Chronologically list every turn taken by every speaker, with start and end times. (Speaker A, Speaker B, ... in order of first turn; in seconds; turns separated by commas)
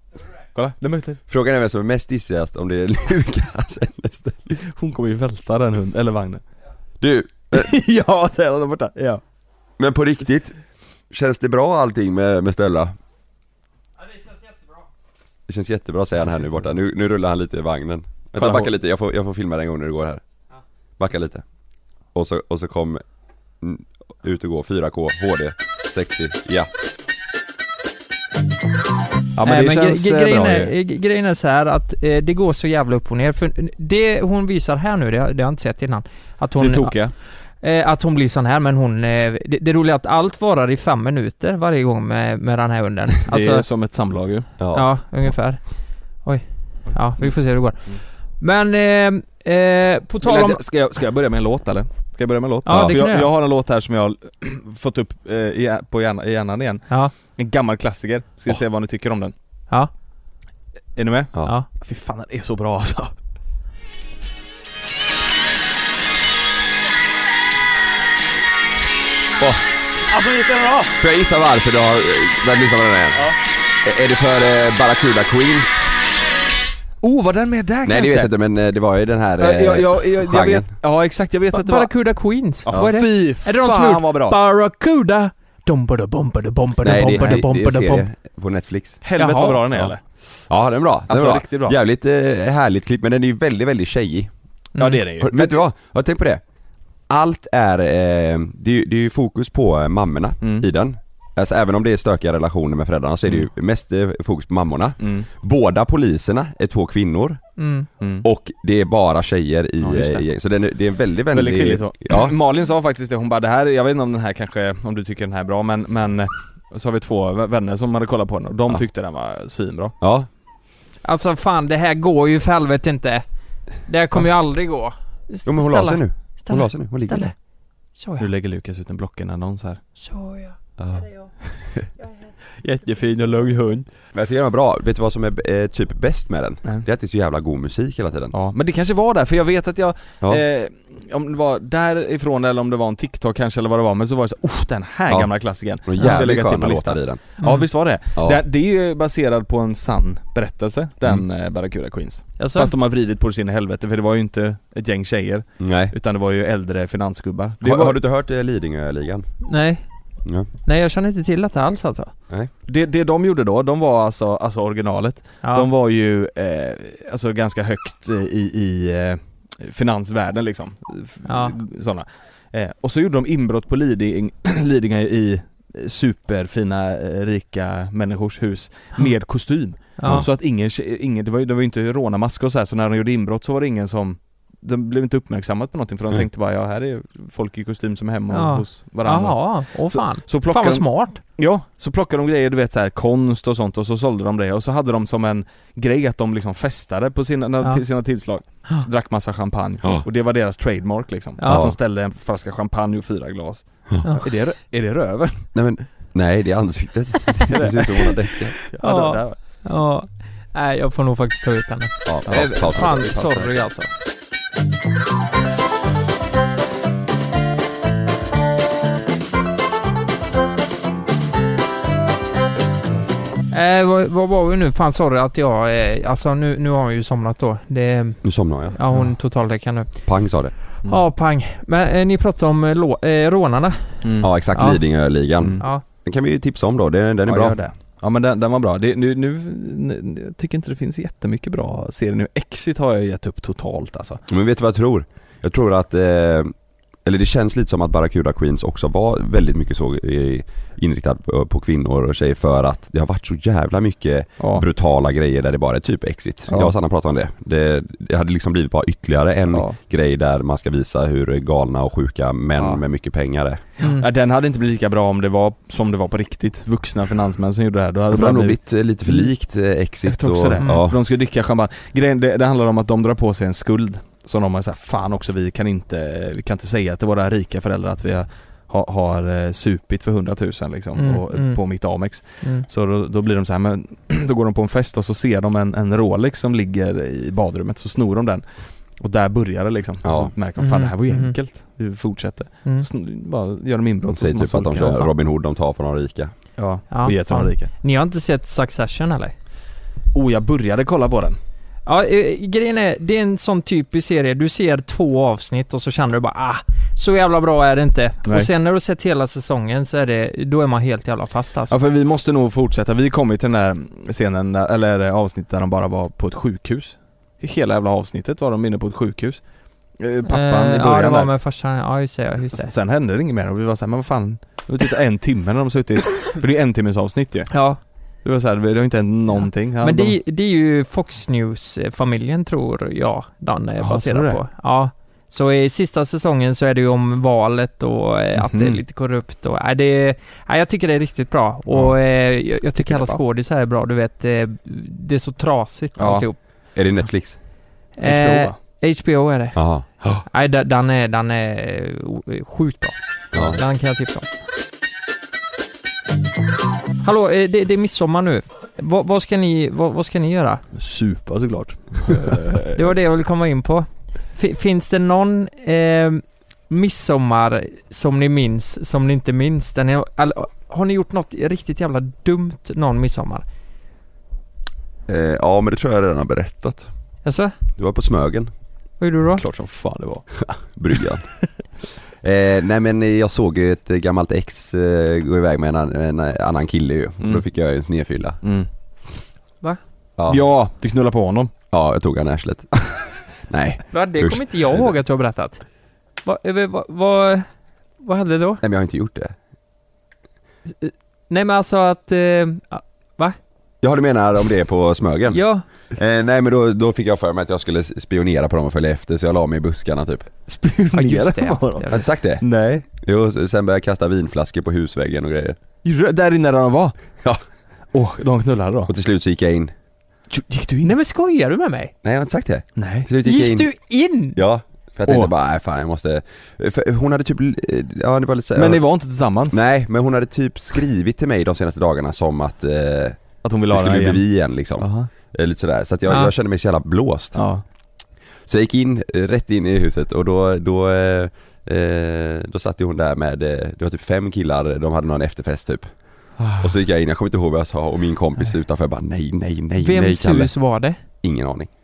Speaker A: 0.5-1.2, Speaker B: 1.3-4.6, Speaker A: 4.6-6.4, Speaker B: 7.0-7.7, Speaker A: 7.5-9.2, Speaker B: 9.8-10.6, Speaker B: 11.1-12.9, Speaker B: 15.5-20.2, Speaker A: 18.4-18.7, Speaker B: 21.0-21.4, Speaker B: 22.1-23.0, Speaker B: 23.6-26.7, Speaker A: 29.4-30.7, Speaker C: 29.4-36.9, Speaker A: 36.6-37.1, Speaker C: 37.6-43.6, Speaker A: 43.3-44.5, Speaker B: 44.6-44.9, Speaker C: 44.7-45.6, Speaker C: 46.2-47.8, Speaker A: 46.9-47.3, Speaker C: 48.4-50.6, Speaker A: 50.2-59.3, Speaker C: 52.6-53.3, Speaker B: 52.7-53.0, Speaker A: 61.0-63.1, Speaker A: 69.4-71.0, Speaker B: 71.0-73.3, Speaker B: 73.8-75.9, Speaker A: 77.0-78.3, Speaker B: 77.8-80.7, Speaker A: 79.4-81.9, Speaker C: 81.5-88.1, Speaker A: 82.7-84.4, Speaker B: 86.8-89.0, Speaker A: 87.2-87.4, Speaker A: 89.0-90.0, Speaker C: 89.2-89.6, Speaker B: 90.5-94.3, Speaker A: 91.1-91.8, Speaker A: 94.8-95.6, Speaker B: 95.2-96.4, Speaker B: 97.1-107.4, Speaker A: 100.4-100.7, Speaker A: 105.0-105.3, Speaker C: 107.6-107.9, Speaker A: 108.0-108.2, Speaker B: 108.2-112.3, Speaker A: 109.8-110.2, Speaker A: 111.3-119.9, Speaker B: 120.0-120.3, Speaker C: 121.0-123.2, Speaker C: 123.8-127.3, Speaker B: 125.4-127.3, Speaker C: 128.0-128.3, Speaker A: 128.2-129.8, Speaker C: 130.0-130.6, Speaker B: 130.8-131.1, Speaker A: 132.6-133.9, Speaker B: 134.1-138.3, Speaker A: 138.3-158.0, Speaker B: 145.8-147.2, Speaker C: 147.4-147.7, Speaker B: 148.2-148.4, Speaker C: 152.4-152.7, Speaker B: 155.6-155.9, Speaker B: 157.6-159.3, Speaker C: 159.4-159.8, Speaker C: 160.7-162.1, Speaker A: 162.7-190.8, Speaker C: 165.4-165.7, Speaker C: 171.2-171.5, Speaker C: 180.0-180.2, Speaker C: 188.3-191.2, Speaker A: 191.4-205.5, Speaker C: 201.4-201.7, Speaker B: 201.5-201.8, Speaker C: 204.0-204.3, Speaker B: 205.5-208.5, Speaker A: 207.4-209.4, Speaker C: 208.8-213.9, Speaker B: 212.0-213.5, Speaker A: 212.3-212.7, Speaker C: 223.5-229.9, Speaker B: 228.2-228.8, Speaker B: 230.0-230.5, Speaker C: 230.8-234.8, Speaker A: 234.0-234.3, Speaker B: 234.2-237.6, Speaker A: 237.2-244.2, Speaker B: 244.3-246.5, Speaker B: 247.0-263.6, Speaker A: 254.4-254.7, Speaker A: 256.5-256.7, Speaker A: 259.5-259.8, Speaker A: 262.6-262.8, Speaker C: 263.8-264.1, Speaker A: 263.8-269.3, Speaker B: 268.1-271.0, Speaker A: 270.1-295.1, Speaker C: 280.9-281.6, Speaker C: 282.4-282.6, Speaker B: 290.0-290.3, Speaker C: 290.6-291.4, Speaker B: 294.1-296.3, Speaker A: 296.6-297.7, Speaker C: 296.9-299.3, Speaker A: 300.1-301.4, Speaker C: 301.9-311.8, Speaker A: 311.7-319.4, Speaker A: 320.0-321.3, Speaker C: 320.2-322.7, Speaker A: 322.5-327.6, Speaker C: 327.5-327.8, Speaker A: 328.2-330.1, Speaker C: 329.4-346.4, Speaker A: 333.8-334.4, Speaker A: 338.4-338.8, Speaker A: 342.8-343.2, Speaker A: 346.0-346.2, Speaker B: 346.7-347.4, Speaker C: 348.0-349.6, Speaker A: 348.0-348.6, Speaker B: 349.5-350.2, Speaker C: 350.2-354.3, Speaker B: 353.3-353.6, Speaker C: 357.0-360.6, Speaker A: 360.7-362.8, Speaker C: 362.7-373.4, Speaker B: 375.1-376.9, Speaker C: 377.2-377.5, Speaker B: 377.8-378.5, Speaker C: 379.0-379.4, Speaker A: 379.4-380.3, Speaker B: 380.4-381.3, Speaker B: 382.2-388.4, Speaker A: 388.4-388.7, Speaker B: 390.2-390.4, Speaker A: 390.3-391.5, Speaker B: 391.7-394.9, Speaker C: 393.9-395.6, Speaker C: 396.2-397.5, Speaker C: 398.0-398.6, Speaker B: 398.6-399.3, Speaker C: 400.8-403.4, Speaker B: 403.8-410.3, Speaker C: 405.3-405.6, Speaker A: 410.5-412.8, Speaker C: 410.9-412.0, Speaker B: 411.9-412.4, Speaker B: 413.0-415.6, Speaker A: 415.8-416.9, Speaker A: 417.9-418.9, Speaker B: 418.9-419.7, Speaker A: 420.3-420.9, Speaker C: 420.8-421.9, Speaker B: 422.0-423.7, Speaker A: 422.8-423.1, Speaker C: 423.2-424.4, Speaker B: 424.3-428.8, Speaker A: 425.1-425.3, Speaker A: 428.5-429.6, Speaker B: 429.5-437.4, Speaker A: 433.4-434.2, Speaker A: 434.8-435.1, Speaker A: 437.3-437.6, Speaker B: 438.5-445.9, Speaker A: 446.4-446.8, Speaker B: 446.6-450.5, Speaker C: 449.8-451.0, Speaker B: 451.2-451.7